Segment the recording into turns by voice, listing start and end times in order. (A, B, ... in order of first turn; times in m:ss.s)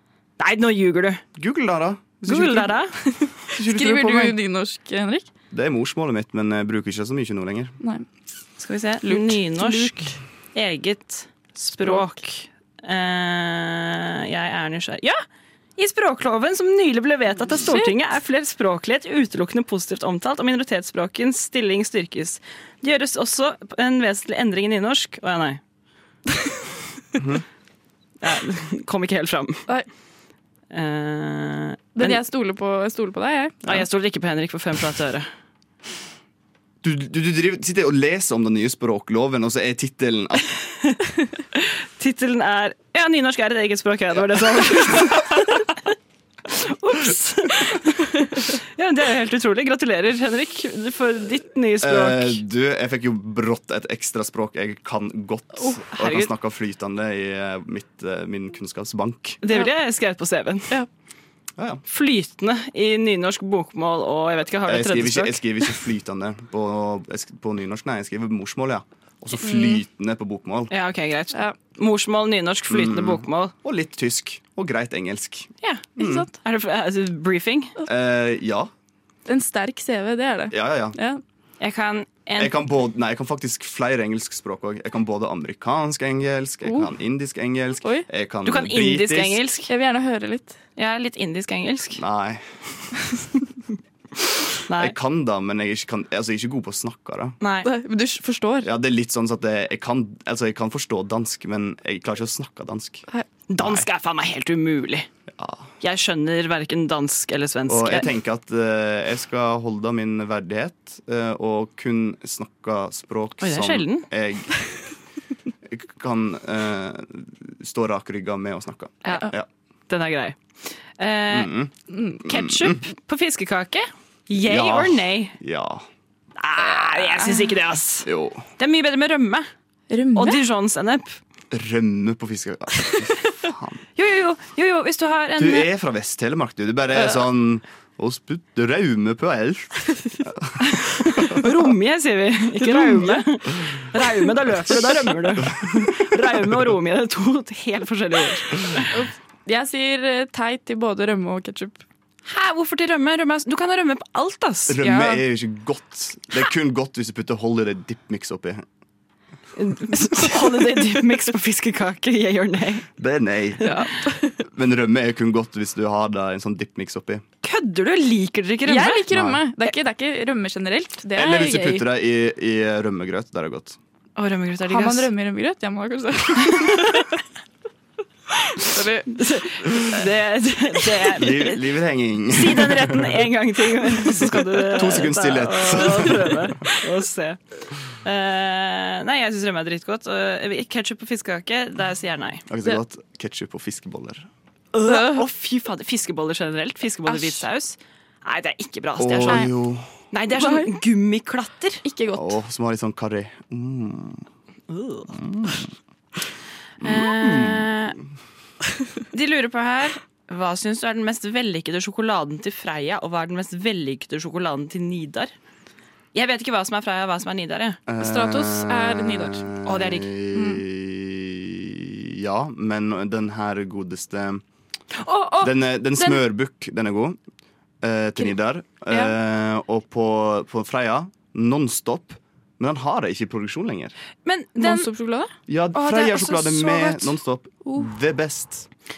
0:00.4-0:01.2 A
0:01.3-0:02.8 B
0:02.2-0:03.0 A
0:03.5-0:04.4 B
0:03.5-0:05.3 C
0:05.5-0:07.7 B
0:08.6-0:15.2 A
0:09.0-0:10.1 C
0:15.8-0:25.6 A
0:17.6-0:17.9 C
0:27.2-0:27.4 B
0:28.2-0:29.7 A
0:30.7-0:32.2 A
0:32.0-0:33.6 C
0:33.6-0:35.3 A
0:36.8-0:40.4 B
0:41.5-0:45.9 A
0:44.4-0:45.1 B
0:46.5-0:52.4 A
0:51.8-0:59.4 B
0:55.9-0:56.3 A
0:59.4-1:00.8 A
1:01.6-1:01.8 B
1:01.9-1:05.7 A
1:04.6-1:10.7 B
1:09.4-1:09.8 C
1:10.7-1:13.5 A
1:12.7-1:16.2 B
1:15.6-1:17.7 A
1:16.0-1:16.3 C
1:17.8-1:18.7 B
1:19.3-1:21.2 C
1:20.5-1:21.0 B
1:21.6-1:22.5 A
1:22.4-1:29.4 B
1:26.6-1:26.9 C
1:28.4-1:29.7 A
1:29.7-1:30.6 C
1:30.8-1:32.0 A
1:32.0-1:32.4 B
1:34.6-1:34.9 A
1:34.7-1:37.4 B
1:37.4-1:37.7 A
1:37.6-1:38.7 C
1:38.6-1:43.0 B
1:43.5-1:45.1 A
1:43.6-1:43.8 B
1:45.3-1:45.7 B
1:45.8-1:48.1 A
1:47.7-1:54.6 B
1:53.4-1:54.1 A
1:55.6-1:59.4 B
1:59.0-1:59.3 A
1:59.9-2:01.5 A
2:01.3-2:01.7 B
2:01.9-2:02.2 C
2:02.2-2:02.8 B
2:02.2-2:05.4 A
2:04.4-2:05.8 B
2:06.4-2:09.5 A
2:08.0-2:08.4 B
2:09.9-2:10.4 C
2:10.1-2:11.2 A
2:11.5-2:13.8 B
2:14.0-2:15.7 A
2:15.4-2:20.6 B
2:20.6-2:28.9 A
2:22.7-2:23.2 C
2:28.9-2:31.8 C
2:32.2-2:34.8 A
2:34.7-2:38.6 B
2:34.8-2:35.2 C
2:39.6-2:42.9 A
2:43.0-2:43.7 B
2:43.6-2:44.4 C
2:44.4-2:47.2 B
2:47.4-2:49.0 A
2:48.6-2:51.8 C
2:49.1-2:49.4 B
2:51.1-2:53.8 B
2:54.2-2:55.1 A
2:54.7-2:57.1 C
2:56.5-2:57.0 A
2:58.5-2:59.1 C
2:59.1-3:01.7 A
3:01.1-3:03.3 B
3:02.3-3:07.4 A
3:04.7-3:06.5 B
3:08.0-3:12.4 A
3:12.5-3:14.3 B
3:14.7-3:19.5 A
3:14.8-3:15.2 C
3:17.1-3:17.4 C
3:19.0-3:19.9 B
3:20.1-3:21.8 A
3:20.3-3:20.7 C
3:21.8-3:22.4 C
3:22.1-3:24.2 B
3:24.7-3:25.2 A
3:25.1-3:25.7 B
3:26.8-3:27.8 B
3:26.8-3:28.0 A
3:29.1-3:35.3 A
3:36.1-3:37.8 A
3:37.9-3:44.4 B
3:38.0-3:39.4 C
3:39.6-3:40.1 A
3:40.3-3:40.6 C
3:45.1-3:46.2 A
3:45.4-3:47.2 B
3:47.8-3:53.9 B
3:54.2-3:54.9 A
3:54.6-3:55.3 C
3:55.5-3:58.7 B
3:55.7-3:57.1 A
3:57.6-3:57.9 C